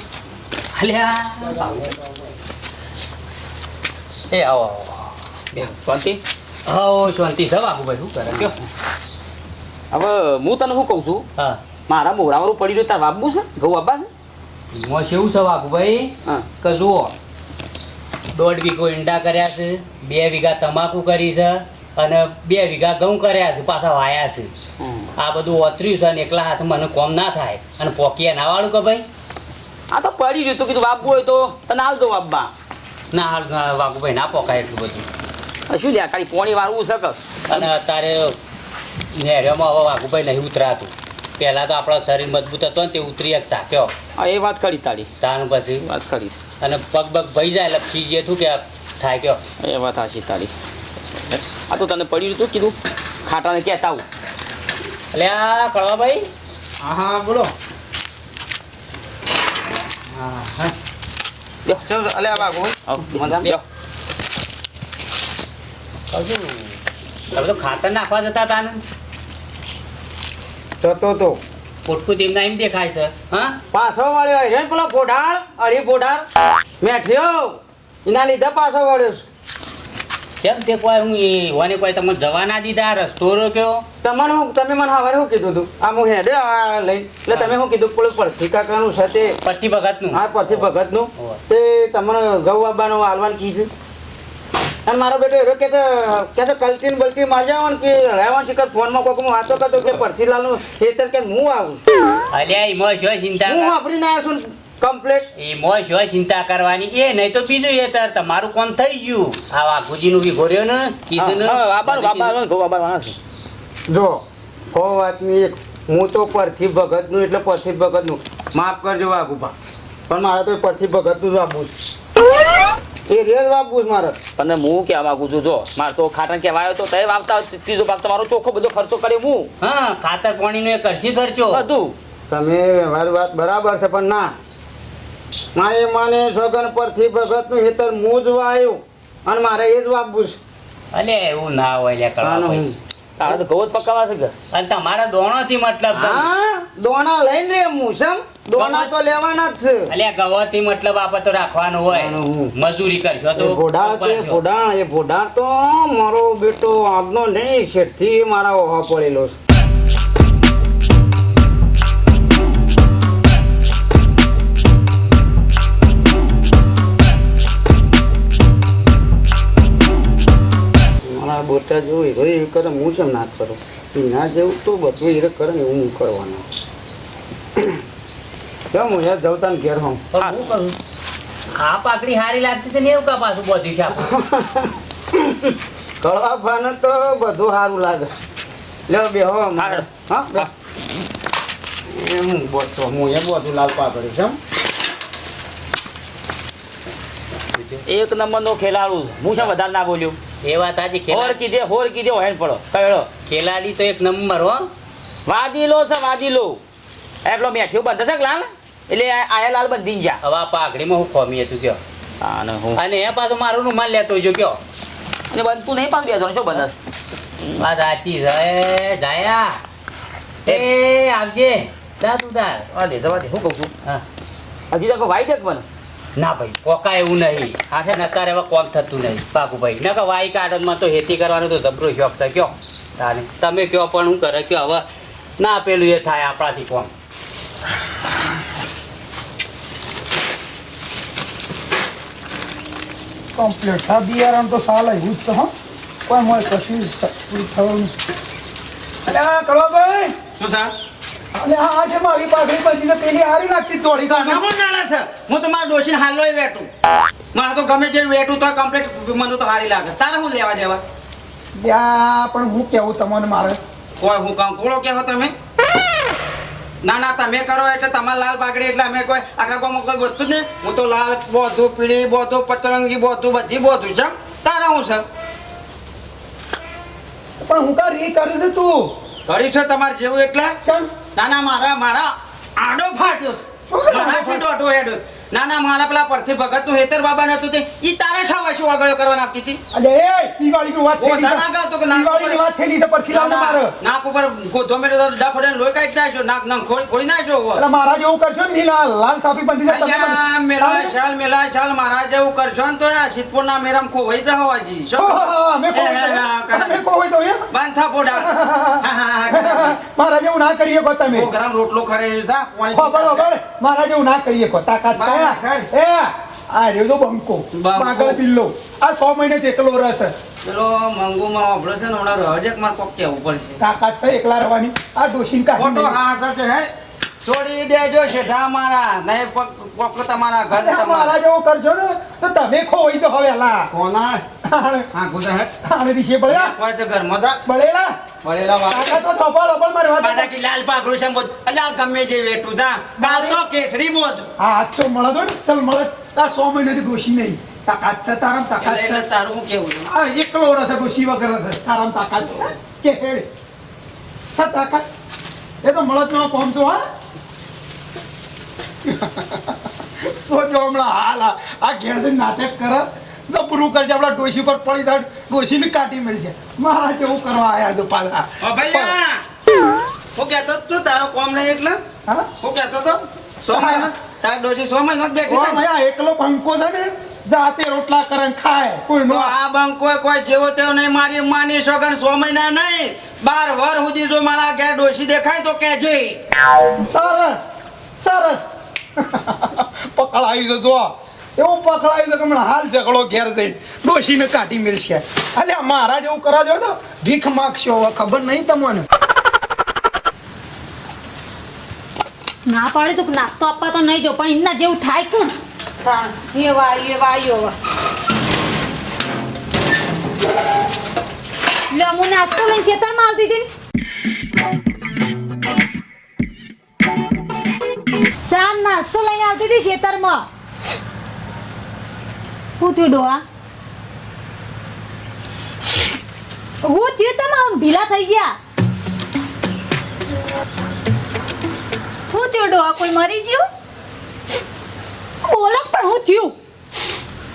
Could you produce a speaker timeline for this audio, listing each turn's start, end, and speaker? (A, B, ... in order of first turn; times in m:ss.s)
0:00.7-0:01.9 A
0:04.3-0:05.1 A
0:05.5-0:06.2 B
0:06.7-0:08.5 A
0:09.9-0:11.2 B
0:11.9-0:14.1 B
0:14.7-0:17.1 A
0:18.3-0:24.5 A
0:24.8-0:25.1 B
0:25.2-0:29.0 A
0:29.9-0:32.5 B
0:33.1-0:35.0 A
0:35.7-0:37.7 B
0:37.5-0:38.4 A
0:39.2-0:43.9 A
0:44.2-0:45.1 B
0:45.2-0:45.9 A
0:45.8-0:46.4 B
0:46.6-0:49.4 A
0:49.6-0:50.5 B
0:51.3-0:54.0 B
0:55.1-0:56.3 A
0:56.8-0:57.5 C
1:00.1-1:00.7 C
1:01.7-1:03.5 C
1:02.9-1:03.6 B
1:06.1-1:06.6 A
1:07.3-1:08.8 A
1:10.8-1:11.4 C
1:11.8-1:13.5 A
1:13.7-1:16.2 C
1:16.8-1:19.2 C
1:20.3-1:23.8 A
1:24.0-1:29.4 C
1:29.4-1:30.6 A
1:30.1-1:33.7 C
1:34.8-1:41.8 C
1:42.3-1:43.8 A
1:43.4-1:45.3 C
1:45.4-1:52.4 A
1:51.2-1:53.2 B
1:53.9-1:59.5 C
2:00.1-2:01.7 C
2:03.1-2:04.2 C
2:04.4-2:09.5 B
2:09.6-2:11.7 A
2:11.5-2:11.9 B
2:12.3-2:14.3 C
2:15.5-2:20.4 C
2:20.9-2:22.6 A
2:22.2-2:23.4 C
2:23.2-2:24.3 B
2:24.5-2:26.3 A
2:25.9-2:29.9 C
2:28.5-2:28.9 A
2:29.9-2:34.4 A
2:31.9-2:32.5 C
2:33.4-2:39.4 C
2:51.0-2:56.4 C
2:58.7-3:00.0 C
3:00.1-3:00.8 A
3:01.6-3:04.1 A
3:04.0-3:08.1 C
3:08.9-3:10.5 C
3:09.6-3:10.5 B
3:11.9-3:14.4 C
3:17.5-3:17.8 A
3:17.9-3:20.2 B
3:20.4-3:21.4 A
3:21.1-3:23.1 B
3:23.2-3:24.7 A
3:25.2-3:26.6 B
3:27.2-3:30.2 B
3:30.2-3:31.8 A
3:32.2-3:32.8 B
3:32.7-3:34.6 A
3:35.3-3:36.7 B
3:37.6-3:39.6 A
3:40.4-3:42.6 A
3:42.7-3:43.7 B
3:44.7-3:45.6 B
3:46.2-3:54.8 A
3:47.7-3:48.0 B
3:55.4-3:56.9 A
4:03.3-4:05.5 D
4:06.1-4:07.9 D
4:09.0-4:10.1 D
4:10.4-4:10.7 C
4:11.3-4:14.4 D
4:13.9-4:16.7 C
4:17.3-4:20.8 C
4:21.6-4:23.6 D
4:24.0-4:25.3 C
4:26.8-4:35.0 C
4:37.4-4:38.9 D
4:39.3-4:49.6 C
4:40.6-4:41.0 D
4:43.7-4:44.4 D
4:49.7-4:53.7 D
4:51.0-4:52.4 C
4:53.1-4:57.7 C
4:57.6-5:00.9 D
4:59.6-5:06.8 C
5:05.0-5:07.5 D
5:07.5-5:09.8 C
5:08.1-5:11.3 D
5:11.0-5:13.3 C
5:12.7-5:20.1 D
5:14.9-5:15.7 C
5:17.5-5:18.2 C
5:20.4-5:23.6 C
5:23.6-5:26.0 D
5:25.5-5:31.1 C
5:30.5-5:33.7 D
5:33.7-5:34.2 C
5:34.4-5:34.9 D
5:34.9-5:35.6 C
5:35.6-5:36.5 D
5:36.3-5:37.4 C
5:37.4-5:37.9 D
5:38.2-5:39.0 C
5:38.7-5:40.3 D
5:40.0-5:44.3 C
5:43.0-5:43.4 D
5:44.4-5:49.0 D
5:48.6-5:49.9 C
5:49.8-5:53.3 D
5:54.3-5:54.8 D
5:55.6-5:56.8 D
5:58.8-6:09.0 D
6:08.4-6:09.2 C
6:10.1-6:11.8 C
6:12.1-6:12.3 D
6:12.4-6:15.6 C
6:13.5-6:13.9 D
6:15.2-6:19.4 D
6:19.1-6:26.2 C
6:26.8-6:27.4 D
6:28.0-6:38.9 D
6:42.5-6:47.5 E
6:51.7-6:53.5 E
6:58.2-7:00.2 E
7:02.6-7:03.2 E
7:06.6-7:08.3 E
7:12.1-7:13.4 E
7:15.2-7:16.3 E